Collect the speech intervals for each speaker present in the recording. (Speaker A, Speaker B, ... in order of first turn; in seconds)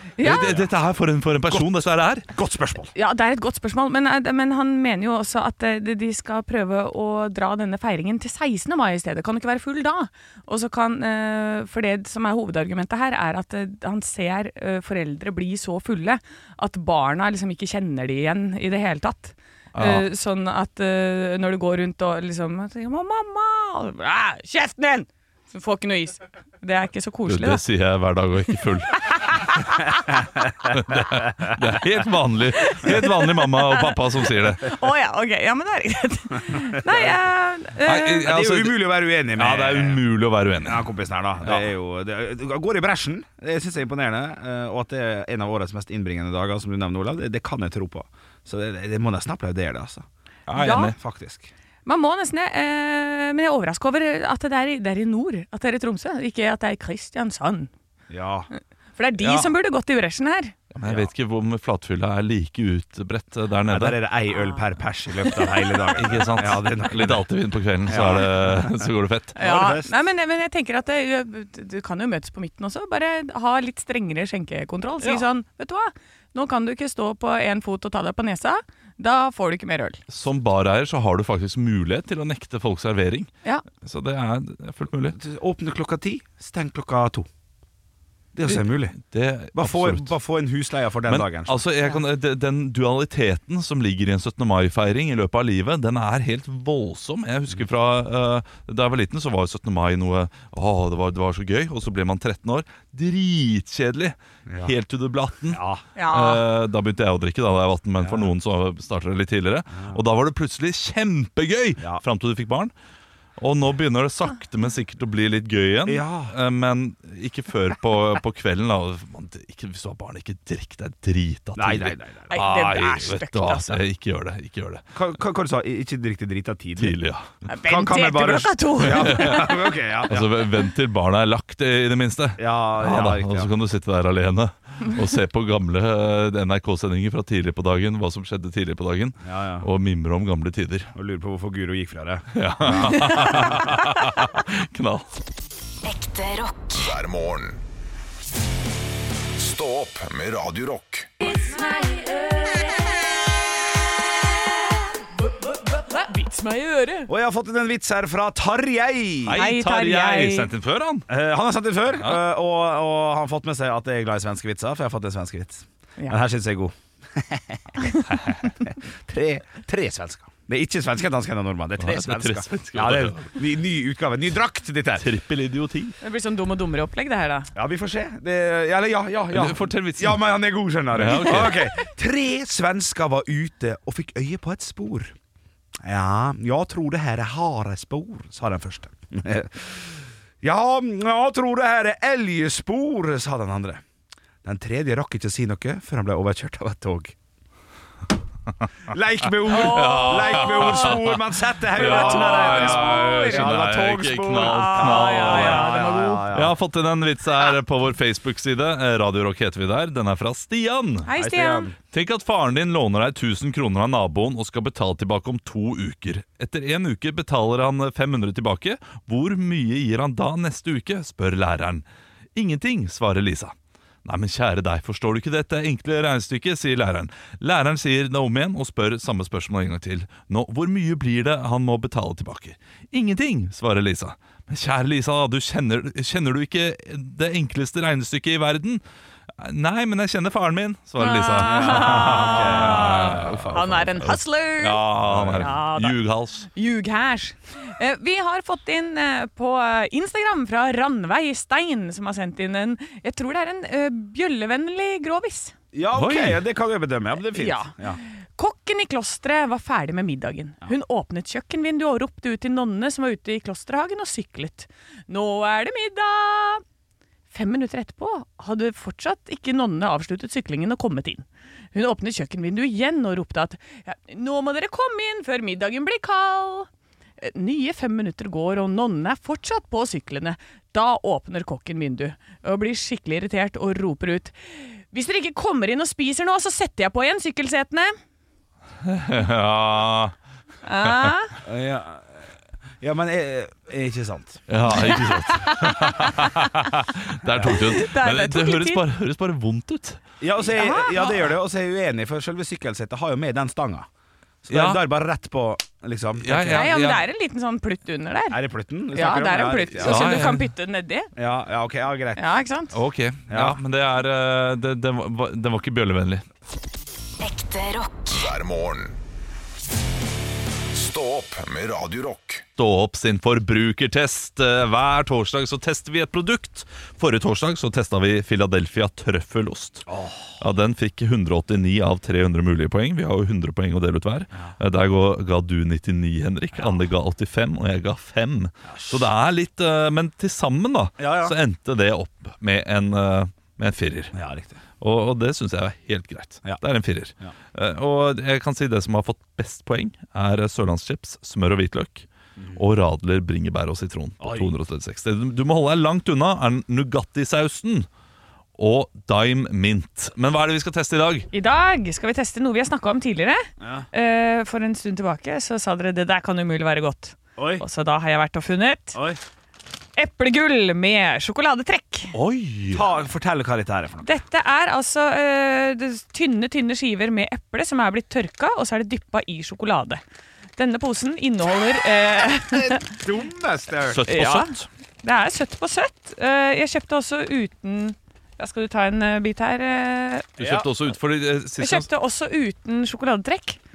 Speaker A: 0.2-0.5, 3.0-27.6, 29.1-29.8, 32.6-38.3, 50.6-50.9, 51.9-57.7, 59.0-60.5, 64.3-64.6, 69.4-80.0, 106.0-106.4, 122.3-123.8, 127.5-129.5, 151.2-152.8, 155.5-157.1, 159.3-160.5, 176.0-177.5, 199.5-201.0, 201.8-203.6, 204.3-206.3, 211.1-211.7, 241.0-246.0, 246.5-255.5, 257.3-266.6, 267.3-276.7, 277.2-287.9, 290.6-291.4, 294.9-296.1, 297.5-298.8, 300.5-301.2, 306.5-308.4, 308.9-311.1, 312.2-312.8, 361.3-369.0, 370.0-372.1, 374.0-380.0, 380.6-382.9, 384.1-390.4, 391.6-393.6
Speaker B: 0.2-2.3, 19.7-20.1, 27.3-29.6, 30.7-34.7, 37.8-40.9, 50.5-51.0, 60.7-64.0, 66.0-69.4, 80.1-85.2, 88.5-90.1, 91.1-112.7, 113.4-124.8, 126.8-127.3, 128.8-129.5, 130.1-140.9, 142.3-145.1, 159.3-161.1, 171.8-173.3, 175.0-176.0, 179.3-180.3, 180.9-181.7, 199.5-201.2, 201.7-205.7, 206.3-211.1, 211.9-238.8, 239.4-246.5, 255.9-256.4, 288.8-290.1, 290.8-291.1, 294.5-300.0, 304.5-304.8, 306.2-307.1, 309.8-310.5, 312.7-316.2, 322.6-329.9, 330.4-344.1, 344.8-357.9, 358.6-361.3, 372.1-372.9, 383.9-384.7, 390.4-391.9
Speaker C: 0.3-0.7, 2.3-2.9, 38.2-40.0, 40.6-50.1, 50.7-51.5, 58.1-58.5, 59.2-59.5, 60.8-61.1, 63.7-67.3, 67.9-69.9, 85.1-87.3, 88.3-89.0, 89.5-91.6, 104.5-104.7, 105.5-105.8, 108.0-108.3, 115.9-116.3, 121.6-122.3, 124.9-127.0, 127.6-130.3, 132.4-133.5, 139.2-139.7, 140.9-143.8, 157.1-159.4, 161.1-175.1, 177.6-185.2, 185.8-193.8, 194.4-197.2, 198.9-206.6, 211.1-211.8, 241.4-243.9, 245.0-245.5, 255.7-258.0, 291.4-292.3, 292.8-294.4, 297.3-297.6, 300.2-303.9, 304.4-306.7, 308.3-310.2, 311.2-312.2, 313.3-313.6, 329.9-330.4, 336.5-336.8, 338.7-339.1, 341.0-341.4, 344.1-344.6, 352.4-352.6, 354.2-354.5, 363.6-363.9, 367.4-367.6, 368.9-369.2, 372.7-374.1, 382.5-384.1, 390.4-390.7
Speaker D: 145.8-146.8, 317.2-318.1
Speaker E: 146.8-147.6, 149.4-151.1, 318.1-319.0, 320.7-322.4